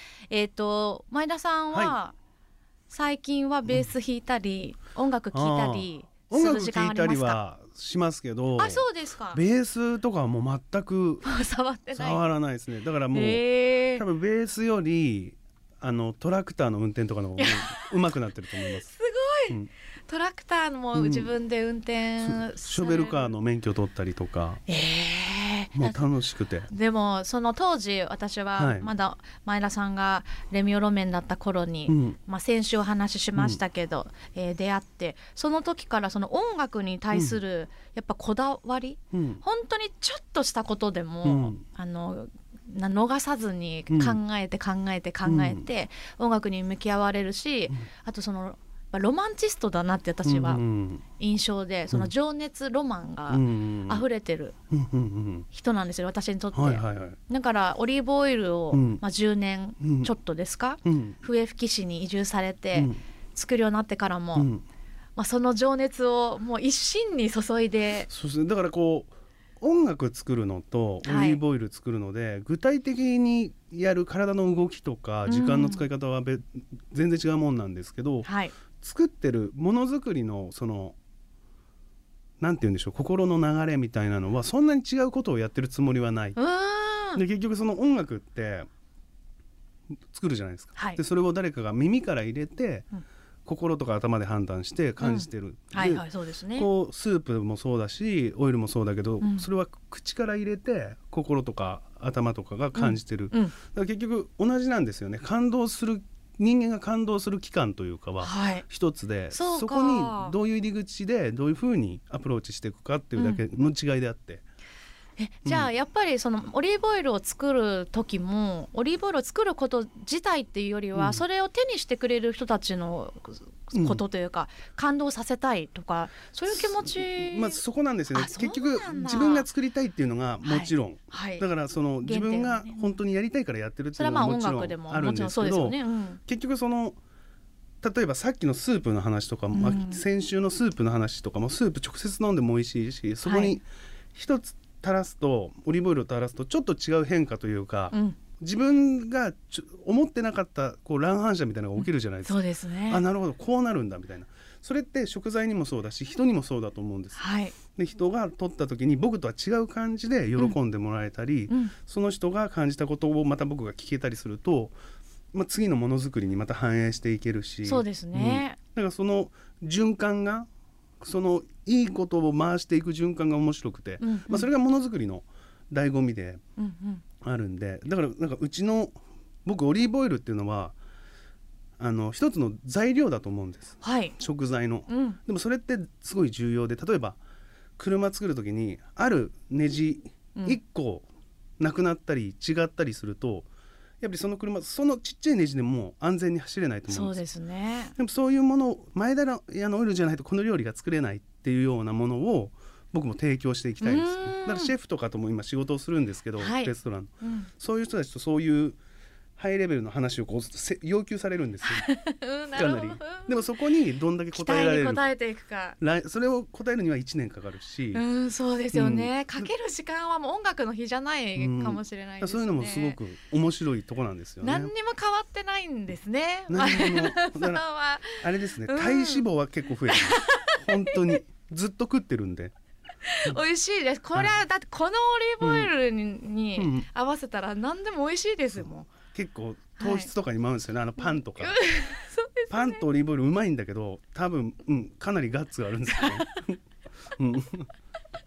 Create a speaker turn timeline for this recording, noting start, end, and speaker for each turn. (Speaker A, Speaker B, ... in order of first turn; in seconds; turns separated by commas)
Speaker A: 0.3-2.1, Speaker A: 2.9-7.4, Speaker B: 5.3-11.3, Speaker A: 8.6-9.4, Speaker A: 11.2-12.2, Speaker B: 11.9-18.9, Speaker A: 13.1-14.0, Speaker A: 17.4-17.9, Speaker A: 18.6-23.3, Speaker B: 20.9-21.3, Speaker B: 22.2-24.6, Speaker A: 24.7-26.1, Speaker B: 25.8-26.7, Speaker A: 26.7-50.6, Speaker B: 28.6-28.9, Speaker B: 31.9-32.2, Speaker B: 33.4-33.6, Speaker B: 37.1-37.4, Speaker B: 39.1-39.4, Speaker B: 41.2-41.6, Speaker B: 43.9-44.2, Speaker B: 45.2-45.7, Speaker B: 50.2-51.0, Speaker A: 51.2-54.5, Speaker B: 53.3-54.1, Speaker B: 54.7-55.5, Speaker A: 55.5-64.5, Speaker B: 56.5-57.2, Speaker B: 58.7-59.0, Speaker B: 59.8-60.1, Speaker B: 60.8-61.2, Speaker B: 62.7-63.0, Speaker B: 64.4-64.6, Speaker A: 65.2-68.1, Speaker B: 68.1-78.3, Speaker A: 71.0-71.4, Speaker A: 75.3-75.9, Speaker A: 78.2-78.5, Speaker B: 78.8-81.0, Speaker B: 82.4-86.4, Speaker A: 86.4-87.2, Speaker B: 87.2-88.7, Speaker B: 90.1-92.9, Speaker B: 93.5-114.4, Speaker A: 95.0-96.7, Speaker A: 99.2-99.5, Speaker A: 102.8-103.6, Speaker A: 108.2-108.7, Speaker A: 109.3-110.4, Speaker A: 113.2-113.4, Speaker A: 115.2-127.6, Speaker B: 115.5-115.7, Speaker B: 120.9-121.2, Speaker B: 123.7-124.0, Speaker B: 126.5-137.0, Speaker A: 128.1-129.5, Speaker A: 130.4-131.5, Speaker A: 132.0-133.0, Speaker A: 134.0-136.2, Speaker B: 137.8-157.2, Speaker A: 139.5-140.0, Speaker A: 143.2-143.6, Speaker A: 147.9-148.2, Speaker A: 152.2-153.0, Speaker A: 157.2-157.6, Speaker B: 157.7-164.8, Speaker A: 161.5-161.7, Speaker B: 165.3-170.5, Speaker A: 167.7-168.6, Speaker B: 171.0-176.4, Speaker A: 174.0-174.5, Speaker A: 176.6-177.0, Speaker B: 177.2-180.8, Speaker B: 181.8-187.2, Speaker A: 183.8-184.2, Speaker A: 184.9-185.2, Speaker B: 187.8-191.1, Speaker B: 191.6-193.5, Speaker B: 194.0-197.2, Speaker A: 196.9-197.9, Speaker B: 198.0-208.8, Speaker A: 203.8-204.7, Speaker A: 206.4-207.5, Speaker B: 209.4-211.9, Speaker A: 211.7-213.5, Speaker B: 212.5-215.1, Speaker A: 214.3-215.8, Speaker B: 215.8-218.0, Speaker A: 217.9-223.0, Speaker B: 218.7-219.5, Speaker B: 221.4-224.7, Speaker A: 224.4-229.3, Speaker B: 226.5-232.5, Speaker A: 229.9-231.2, Speaker A: 233.1-238.9, Speaker B: 235.4-235.7, Speaker B: 236.6-236.9, Speaker B: 238.5-241.6, Speaker A: 239.8-240.1, Speaker A: 241.0-242.8, Speaker B: 242.5-246.6, Speaker A: 245.9-246.4, Speaker B: 247.2-247.7